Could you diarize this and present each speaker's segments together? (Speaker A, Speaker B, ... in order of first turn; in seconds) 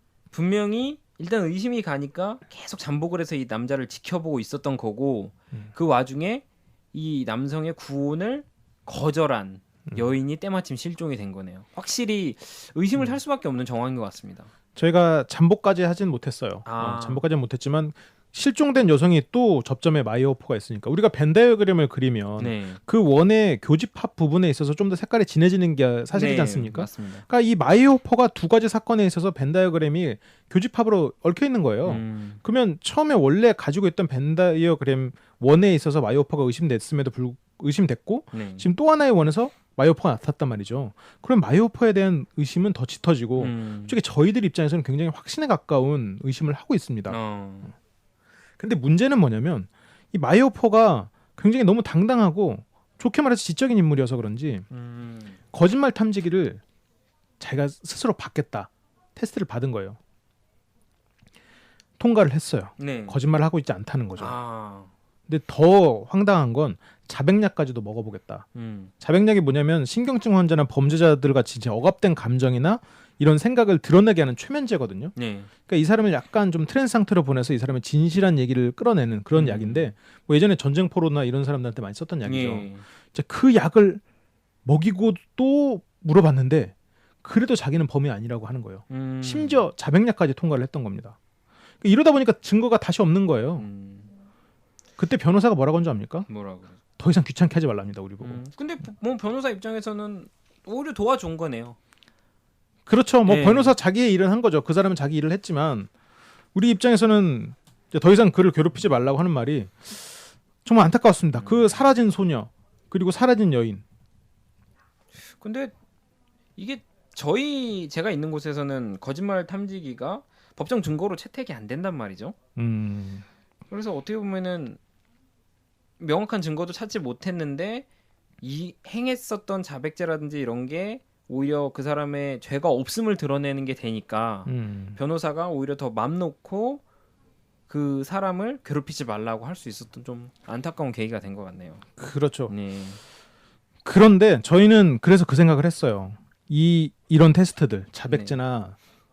Speaker A: 0.3-14.5, 16.6-17.2, 22.4-22.8, 26.1-27.2, 31.9-32.4, 38.3-38.7, 43.4-44.0, 47.1-47.7, 54.7-55.4, 62.8-63.2, 64.2-64.9, 68.5-68.9, 75.2-75.5, 79.3-79.9, 82.2-82.8, 88.9-89.7, 93.6-94.1, 96.3-96.8, 98.2-101.8, 103.2-103.8, 111.4-111.8, 115.3-115.7, 116.6-122.4, 123.7-124.8, 126.0-127.9, 128.4-136.8, 137.7-141.8, 142.5-143.0, 148.1-148.3
Speaker B: 14.8-47.2, 48.6-54.7, 55.5-56.6, 57.4-60.0, 62.0-64.4, 65.3-68.5, 69.0-75.1, 75.7-84.0, 84.7-91.2, 91.8-93.7, 95.0-96.3, 97.0-98.4, 102.9-105.9, 106.5-113.8, 122.6-123.3, 134.5-135.0, 142.0-142.5, 143.8-148.8